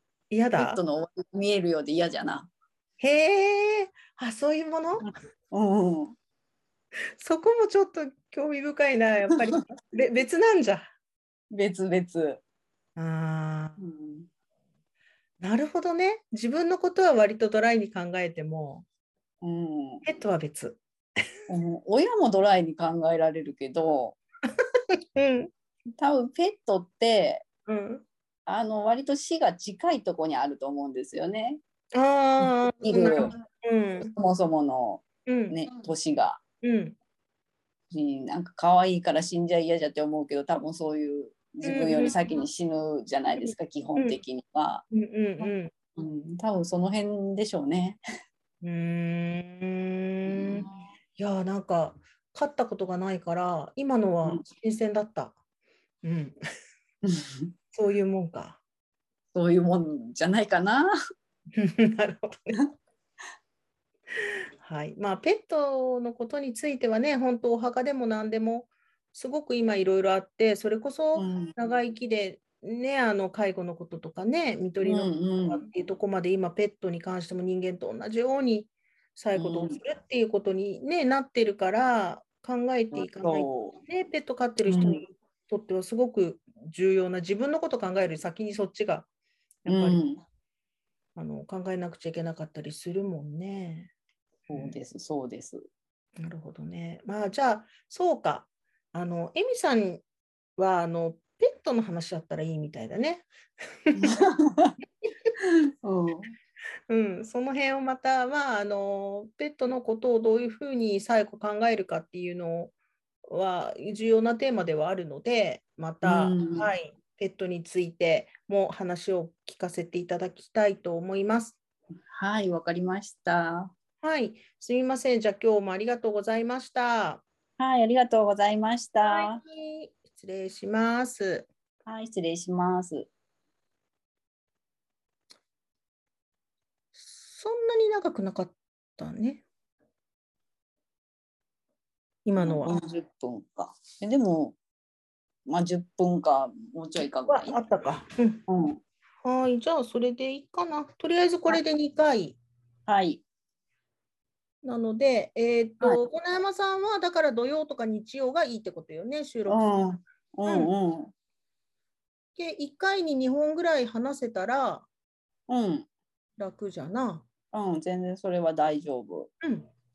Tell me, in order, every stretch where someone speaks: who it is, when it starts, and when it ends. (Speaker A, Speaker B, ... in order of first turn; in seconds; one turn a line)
Speaker A: 0.3-0.8
Speaker B: 0.6-2.5
Speaker A: 3.0-5.1
Speaker B: 5.0-6.2
Speaker A: 7.2-10.9
Speaker B: 11.5-12.4
Speaker A: 13.0-13.8
Speaker B: 13.8-14.3
Speaker A: 15.4-18.9
Speaker B: 19.4-20.0
Speaker A: 20.0-20.8
Speaker B: 21.5-24.2
Speaker A: 25.1-25.5
Speaker B: 26.0-27.4
Speaker A: 27.7-28.0
Speaker B: 28.5-31.6
Speaker A: 31.9-34.1
Speaker B: 32.4-33.4
Speaker B: 34.0-36.4
Speaker A: 35.3-35.6
Speaker A: 36.6-37.0
Speaker B: 37.9-44.9
Speaker A: 41.6-42.1
Speaker A: 43.4-44.2
Speaker A: 44.9-45.7
Speaker B: 45.4-48.0
Speaker A: 48.6-55.4
Speaker B: 50.3-50.9
Speaker A: 56.0-56.4
Speaker B: 57.0-57.5
Speaker A: 57.7-58.6
Speaker B: 59.3-60.9
Speaker A: 61.6-62.6
Speaker A: 64.6-89.1
Speaker B: 71.2-71.5
Speaker B: 74.8-75.6
Speaker B: 79.3-79.8
Speaker B: 82.9-83.8
Speaker B: 84.7-85.0
Speaker A: 89.6-90.0
Speaker B: 89.7-90.2
Speaker A: 91.2-93.9
Speaker A: 94.5-94.8
Speaker B: 94.5-95.6
Speaker A: 96.2-100.0
Speaker A: 100.6-103.2
Speaker A: 103.9-104.1
Speaker B: 104.0-104.7
Speaker B: 105.8-106.3
Speaker A: 106.9-112.7
Speaker A: 113.3-121.6
Speaker B: 116.0-116.7
Speaker B: 122.1-123.7
Speaker A: 124.0-127.2
Speaker B: 127.6-129.4
Speaker A: 129.0-131.5
Speaker B: 131.9-133.1
Speaker A: 136.9-139.4
Speaker A: 142.2-142.7
Speaker B: 142.4-144.6
Speaker B: 145.5-147.6
Speaker A: 147.2-148.4
Speaker B: 148.5-148.8
Speaker A: 149.2-152.4
Speaker B: 152.9-153.2
Speaker A: 154.6-159.7
Speaker B: 159.5-161.1
Speaker A: 160.5-160.7
Speaker A: 162.4-164.9
Speaker B: 165.5-165.9
Speaker A: 166.4-167.2
Speaker B: 167.5-169.3
Speaker A: 169.4-169.7